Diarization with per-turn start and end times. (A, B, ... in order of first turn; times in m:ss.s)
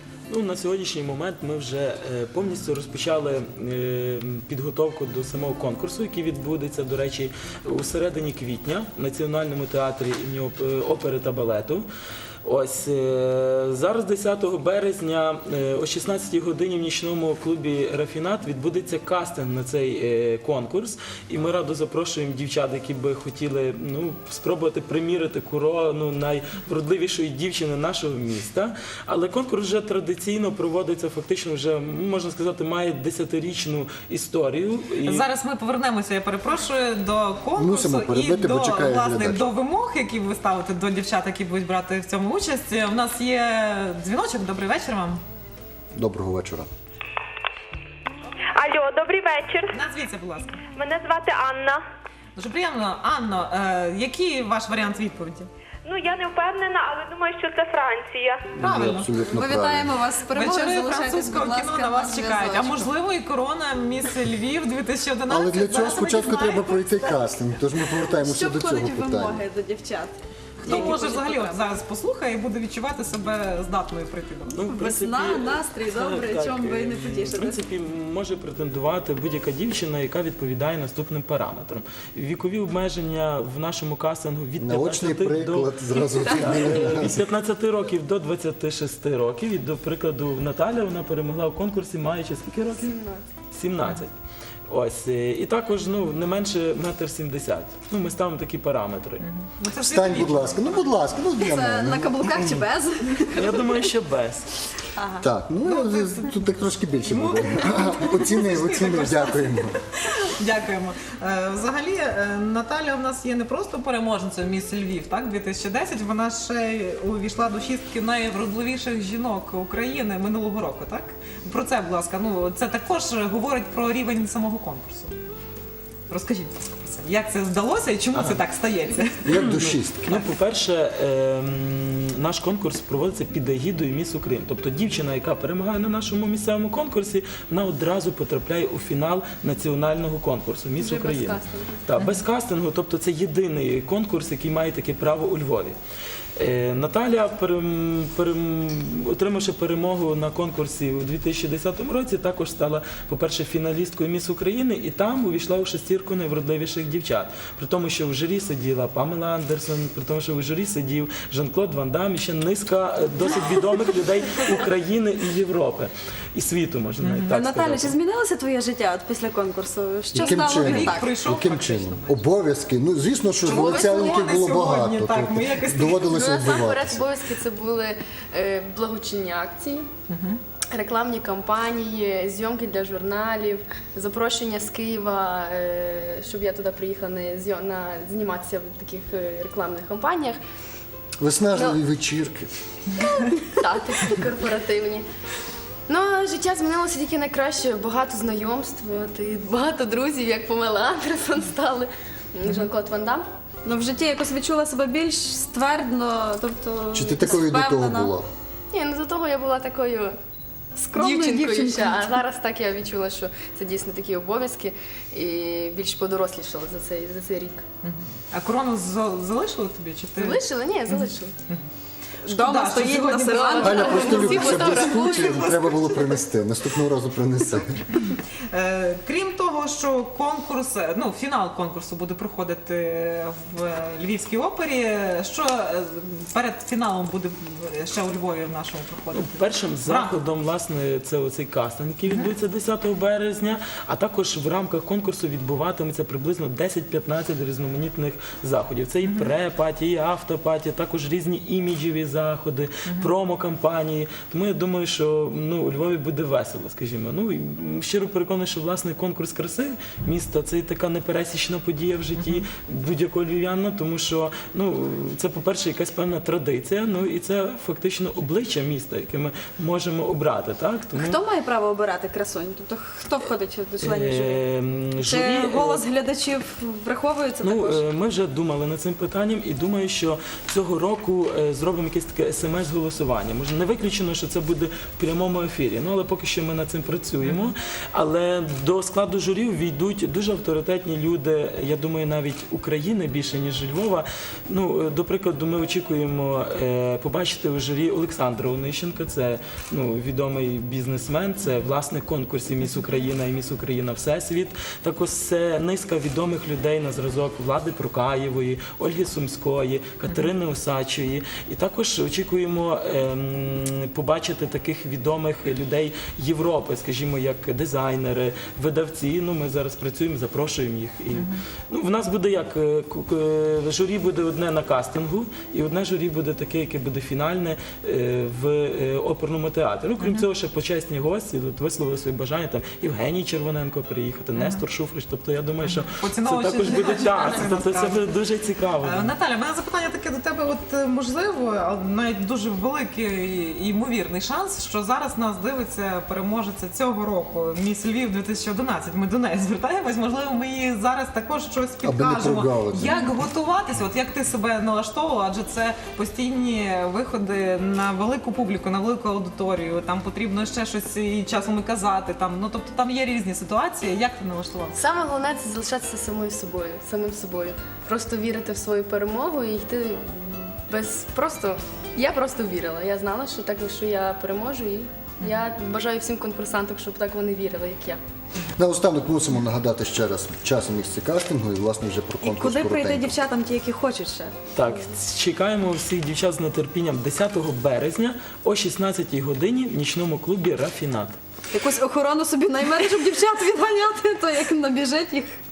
0:00.3-0:11.9 A
0:12.4-0:35.3 A
0:35.0-0:45.2 B
0:37.6-0:39.5 C
0:46.0-0:46.7 C
0:48.6-0:49.7 D
0:49.7-0:50.6 B
0:50.8-0:51.8 D
0:52.4-0:55.5 B
0:55.9-0:58.4 D
0:58.6-0:59.1 B
0:58.6-0:59.9 C
0:59.4-1:02.8 E
1:00.3-1:07.2 B
1:05.3-1:09.4 C
1:08.2-1:10.2 E
1:10.6-1:11.0 A
1:10.6-1:14.6 B
1:10.7-1:11.5 E
1:14.5-1:33.0 A
1:14.7-1:17.6 E
1:24.6-1:27.2 C
1:32.7-1:33.2 F
1:33.5-1:34.1 A
1:34.7-1:39.2 A
1:39.2-1:41.0 B
1:39.8-1:42.7 C
1:41.4-1:43.8 E
1:43.3-1:44.5 A
1:45.2-1:49.7 C
1:45.6-1:46.3 B
1:47.0-2:05.2 B
2:06.1-2:09.4 B
2:08.1-2:08.4 A
2:09.2-2:10.2 C
2:09.4-2:25.8 A
2:20.8-2:21.8 F
2:26.4-2:48.0 A
2:47.0-2:47.4 B
2:47.4-2:51.0 E
2:50.1-2:57.0 C
2:50.2-2:52.2 B
2:53.4-2:56.1 B
2:53.6-2:54.0 E
2:56.1-2:59.8 F
3:00.1-3:00.4 B
3:00.7-3:10.4 F
3:11.2-3:12.5 C
3:13.4-3:15.0 F
3:15.9-3:23.2 F
3:23.6-3:28.1 E
3:26.9-3:28.3 C
3:28.7-3:30.2 F
3:30.8-3:31.9 E
3:30.9-3:37.6 F
3:37.8-3:40.4 B
3:40.2-3:41.3 F
3:40.9-3:41.7 B
3:42.2-3:44.8 B
3:42.3-3:45.3 E
3:43.3-3:45.6 F
3:43.6-3:47.8 C
3:48.5-4:00.2 B
3:59.1-4:31.2 A
4:09.0-4:09.3 B
4:12.9-4:13.1 B
4:22.2-4:22.4 B
4:31.0-4:34.4 E
4:33.8-4:35.9 A
4:35.0-4:37.8 E
4:37.4-5:39.1 A
5:21.1-5:21.4 B
5:30.0-5:30.3 B
5:34.4-5:34.6 B
5:35.6-5:38.1 B
5:38.8-6:04.8 B
5:51.8-5:53.0 C
6:04.8-6:18.0 F
6:18.6-6:23.1 C
6:22.3-6:24.3 E
6:24.5-6:31.2 A
6:31.5-6:35.4 E